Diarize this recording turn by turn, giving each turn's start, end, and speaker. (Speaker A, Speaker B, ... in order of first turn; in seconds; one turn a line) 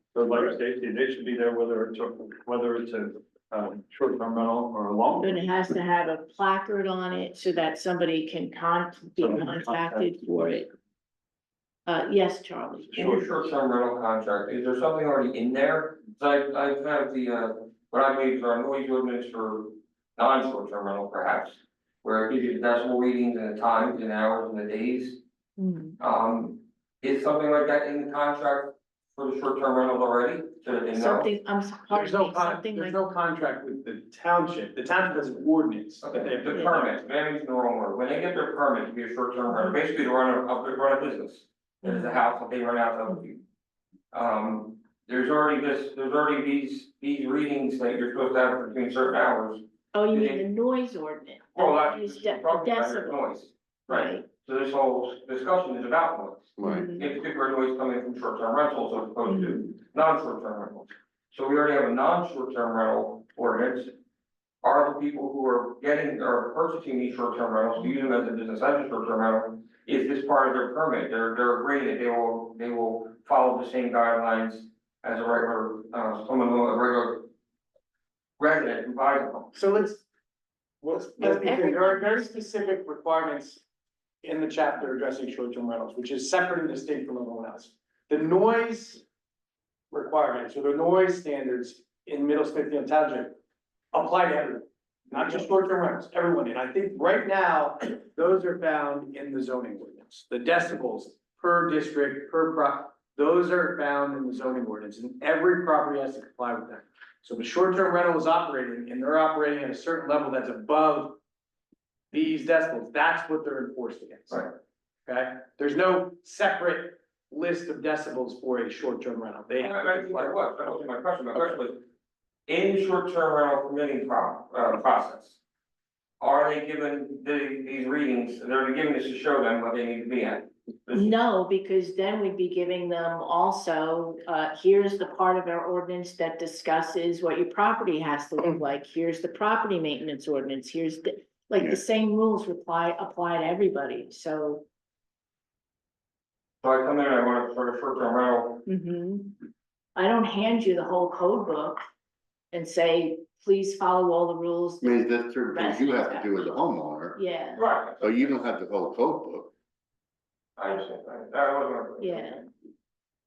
Speaker A: 0.1-5.6
Speaker B: 5.2-10.7
Speaker A: 9.2-10.6
Speaker B: 11.8-13.2
Speaker C: 12.9-25.2
Speaker B: 25.6-26.0
Speaker C: 26.0-31.3
Speaker B: 30.9-33.0
Speaker D: 31.9-36.8
Speaker C: 36.0-43.4
Speaker B: 39.5-39.8
Speaker B: 41.8-42.2
Speaker C: 44.1-50.4
Speaker B: 49.9-53.3
Speaker C: 51.5-63.9
Speaker B: 53.9-54.2
Speaker E: 56.6-56.9
Speaker B: 56.6-57.1
Speaker B: 59.2-59.6
Speaker C: 64.6-77.3
Speaker C: 78.4-79.5
Speaker D: 79.5-80.0
Speaker D: 80.8-83.6
Speaker B: 81.2-82.4
Speaker D: 84.2-89.0
Speaker D: 89.9-93.4
Speaker D: 93.9-111.2
Speaker D: 112.1-114.5
Speaker D: 115.1-120.3
Speaker C: 119.6-121.8
Speaker C: 122.5-125.4
Speaker C: 126.2-131.1
Speaker B: 130.9-144.6
Speaker C: 146.6-148.6
Speaker B: 148.7-149.4
Speaker B: 149.9-151.8
Speaker B: 152.5-156.5
Speaker E: 154.8-157.2
Speaker B: 157.1-157.7
Speaker C: 157.6-158.3
Speaker E: 158.0-159.5
Speaker C: 160.6-162.4
Speaker B: 162.0-162.4